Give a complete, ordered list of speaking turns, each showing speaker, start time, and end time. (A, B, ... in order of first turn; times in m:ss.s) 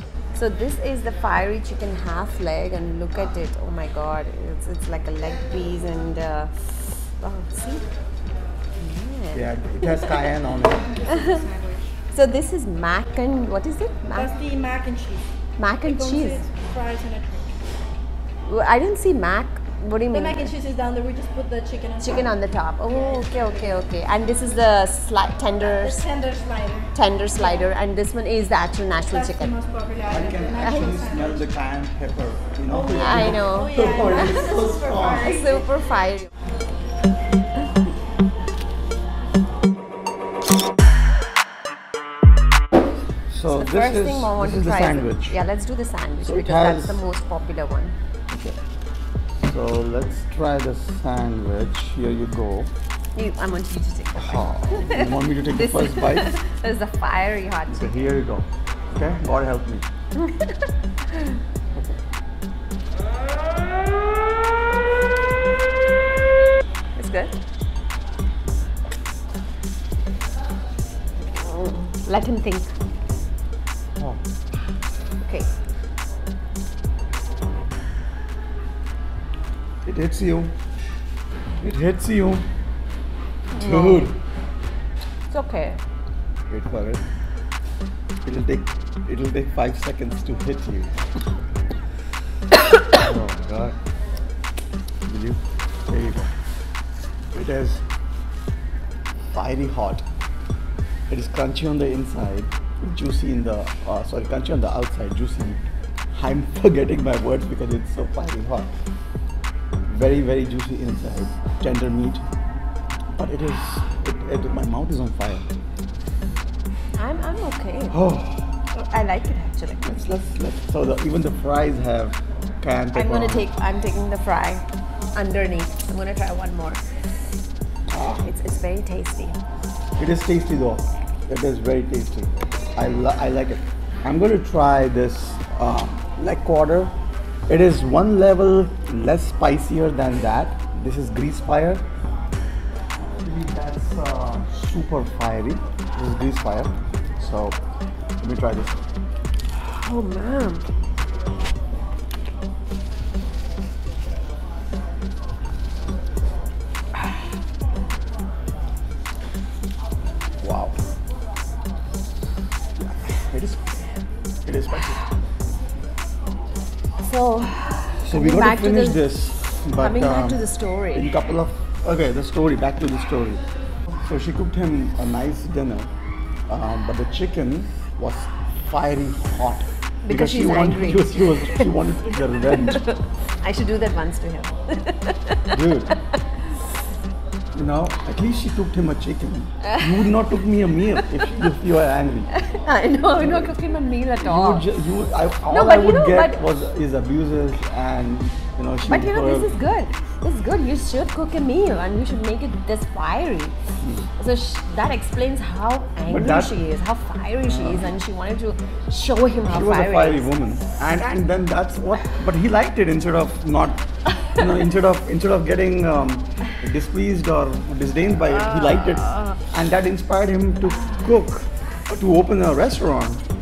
0:00.3-0:07.8 A
0:08.8-0:10.3 A
0:09.3-0:11.1 B
0:11.0-0:12.0 C
0:11.0-0:11.5 A
0:12.1-0:14.4 A
0:14.1-0:15.3 C
0:15.6-0:16.5 A
0:15.8-0:17.6 C
0:18.4-0:20.6 A
0:20.1-0:22.4 C
0:22.0-0:26.0 A
0:23.2-0:23.4 C
0:25.7-0:27.7 C
0:26.9-0:29.6 A
0:29.1-0:31.4 C
0:30.0-0:35.5 B
0:30.6-0:30.9 A
0:32.7-0:35.6 C
0:33.0-0:34.5 A
0:35.2-0:36.3 A
0:43.3-0:45.4 B
0:43.5-0:48.0 A
0:46.2-0:47.0 B
0:48.3-0:48.6 B
0:49.4-0:52.7 B
0:53.2-0:58.1 A
0:54.2-0:56.4 B
0:57.7-0:59.9 B
1:00.2-1:01.4 A
1:07.0-1:07.4 A
1:11.3-1:12.7 A
1:15.2-1:15.5 A
1:19.8-1:20.6 B
1:21.6-1:22.5 B
1:23.5-1:24.2 A
1:23.5-1:24.2 B
1:25.3-1:25.8 A
1:26.5-1:27.0 B
1:28.2-1:30.9 B
1:32.9-1:33.8 B
1:35.0-1:36.3 B
1:37.3-1:37.9 B
1:39.3-1:40.0 B
1:41.1-1:48.8 B
1:49.9-1:52.2 B
1:53.2-1:55.5 B
1:57.0-1:58.0 A
1:57.9-1:58.6 B
1:58.7-1:59.9 A
1:59.8-2:03.5 B
2:02.9-2:06.8 A
2:07.9-2:08.3 B
2:08.2-2:09.4 A
2:10.0-2:16.9 B
2:17.5-2:21.8 B
2:23.0-2:27.6 B
2:28.2-2:28.9 B
2:29.5-2:30.7 A
2:40.4-2:40.8 B
2:42.8-2:43.9 B
2:44.4-2:45.0 B
2:47.0-2:51.2 A
2:48.0-2:53.4 B
2:54.0-2:55.9 B
2:56.5-3:02.9 B
3:00.0-3:06.2 A
3:05.5-3:06.0 B
3:07.5-3:12.3 B
3:09.6-3:11.3 A
3:12.4-3:14.7 A
3:13.2-3:13.5 B
3:14.2-3:19.5 B
3:15.5-3:16.4 A
3:18.8-3:23.6 A
3:23.8-3:24.1 B
3:24.2-3:31.0 A
3:26.1-3:26.6 B
3:27.4-3:27.9 B
3:29.4-3:43.2 B
3:38.3-3:39.4 A